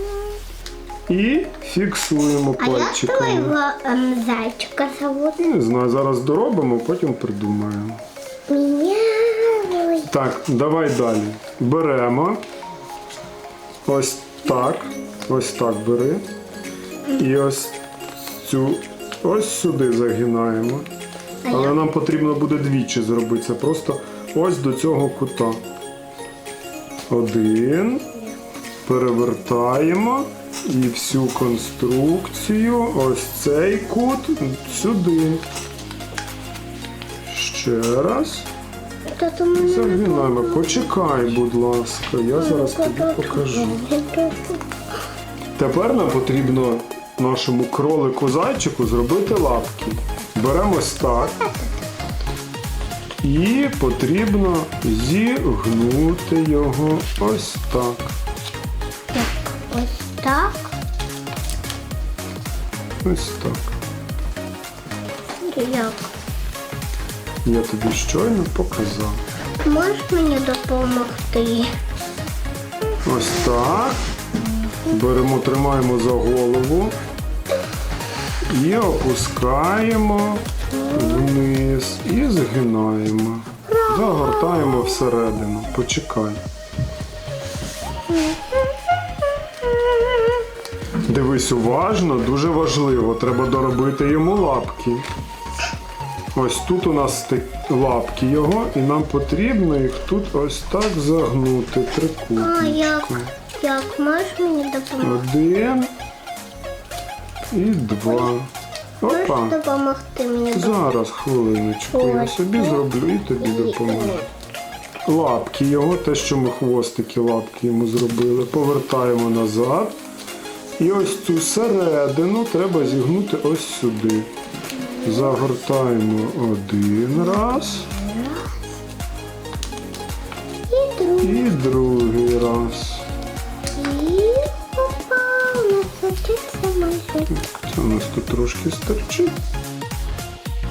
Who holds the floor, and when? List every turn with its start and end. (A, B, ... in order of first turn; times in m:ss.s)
0:01.1-0:03.6 A
0:02.6-0:05.5 B
0:05.4-0:08.0 A
0:08.5-0:10.1 B
0:10.1-0:12.4 A
0:13.8-0:16.2 A
0:17.2-0:20.9 A
0:21.4-0:21.8 B
0:21.5-0:25.6 A
0:27.1-0:28.1 A
0:28.8-0:35.4 A
0:37.3-0:38.5 A
0:39.1-0:41.0 B
0:39.6-0:43.8 A
0:42.4-0:44.6 B
0:45.6-0:51.4 A
0:51.4-0:51.7 B
0:53.2-0:58.2 A
0:59.1-1:00.7 B
1:03.0-1:03.7 A
1:05.4-1:06.1 B
1:07.4-1:09.2 A
1:09.6-1:11.7 B
1:13.0-1:14.0 A
1:14.9-1:16.9 A
1:18.5-1:26.4 A
1:20.8-1:21.3 B
1:23.7-1:25.0 B
1:28.1-1:28.8 B
1:29.6-1:30.4 B
1:31.0-1:35.0 A
1:36.4-1:43.3 A
1:42.4-1:45.2 B
1:45.0-1:45.9 A
1:47.5-1:48.5 A
1:49.0-1:49.6 A
1:49.1-1:50.8 B
1:50.5-1:54.2 A
1:51.9-1:52.8 B
1:53.4-1:54.3 B
1:55.1-2:00.0 A
2:00.8-2:04.3 A
2:05.0-2:07.9 A
2:08.1-2:08.4 B
2:10.7-2:11.5 B
2:11.2-2:13.0 A
2:13.7-2:17.3 B
2:17.3-2:19.4 A